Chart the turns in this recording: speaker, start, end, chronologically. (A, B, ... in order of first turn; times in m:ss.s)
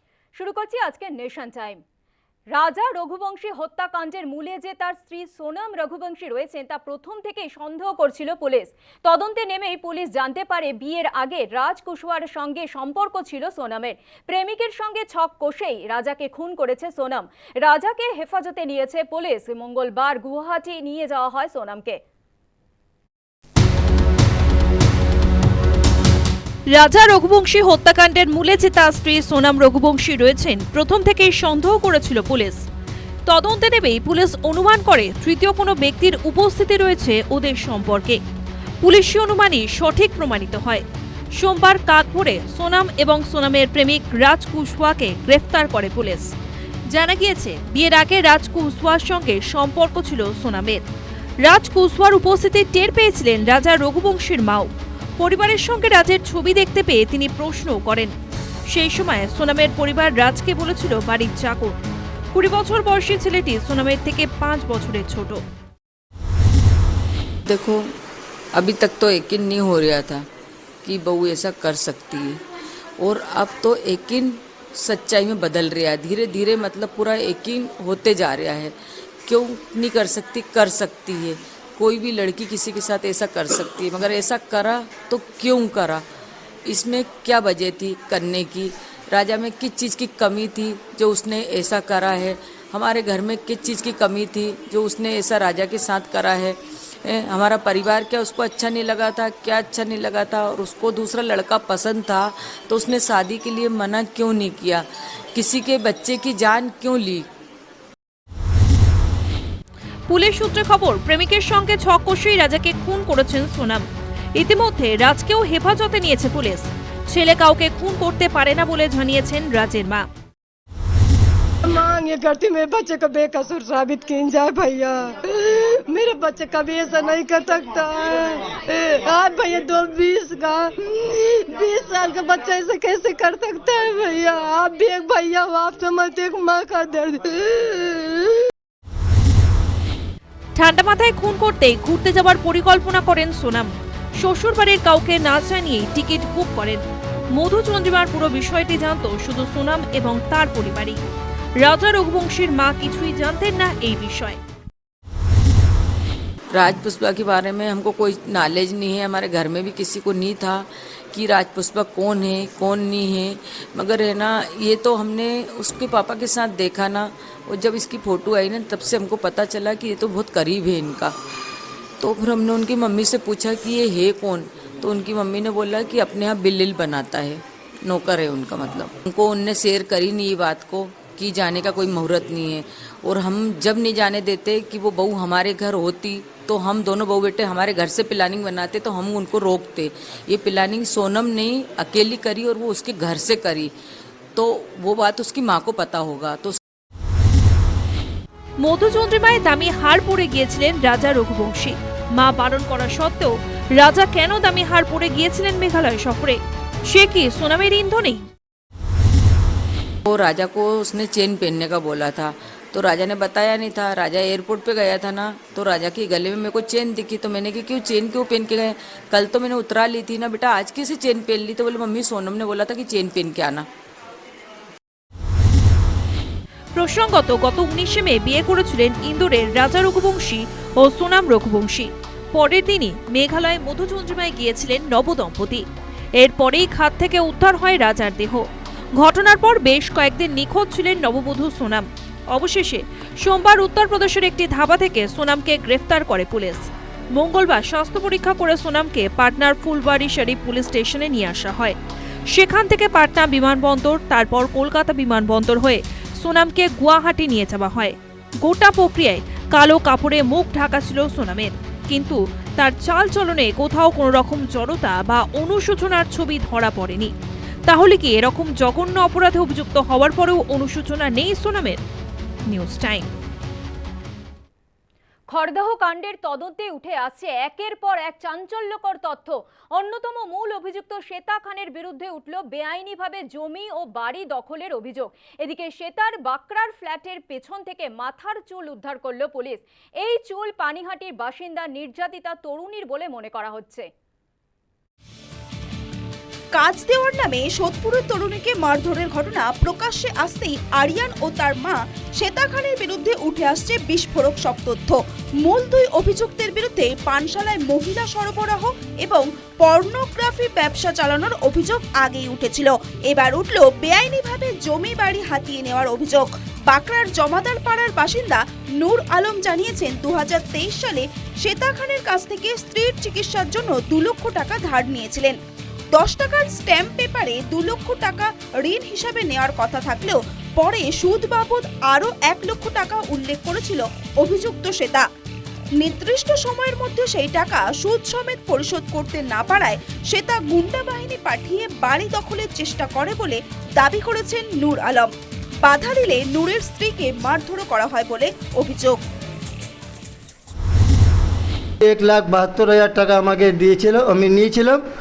0:00.3-0:01.8 A
0:02.5-0:22.0 A
0:26.7-0:32.6 B
0:33.3-0:38.2 B
0:38.8-0:40.8 B
0:41.4-0:46.3 B
0:46.9-0:50.8 B
0:51.4-0:58.1 B
0:58.7-1:01.8 B
1:02.3-1:05.4 B
1:07.5-1:07.9 C
1:08.5-1:10.2 C
1:10.8-1:12.4 C
1:13.0-1:18.7 C
1:19.2-1:26.0 C
1:26.6-1:47.3 C
1:50.1-2:00.0 B
2:01.6-2:18.2 D
2:20.6-2:26.8 B
2:27.3-2:31.0 B
2:31.6-2:34.4 B
2:36.5-2:51.1 C
2:52.0-3:13.7 C
3:14.4-3:16.6 C
3:18.6-3:28.3 B
3:30.1-3:43.7 C
3:46.7-3:55.6 B
3:56.2-3:58.5 B
3:59.0-4:11.8 B
4:12.3-4:27.1 B
4:27.7-4:31.8 B
4:32.5-4:33.1 B
4:35.3-4:53.9 A
4:56.5-5:25.4 E
5:25.9-5:35.1 E
5:35.8-5:45.1 E
5:45.6-5:49.0 E
5:51.8-5:54.8 F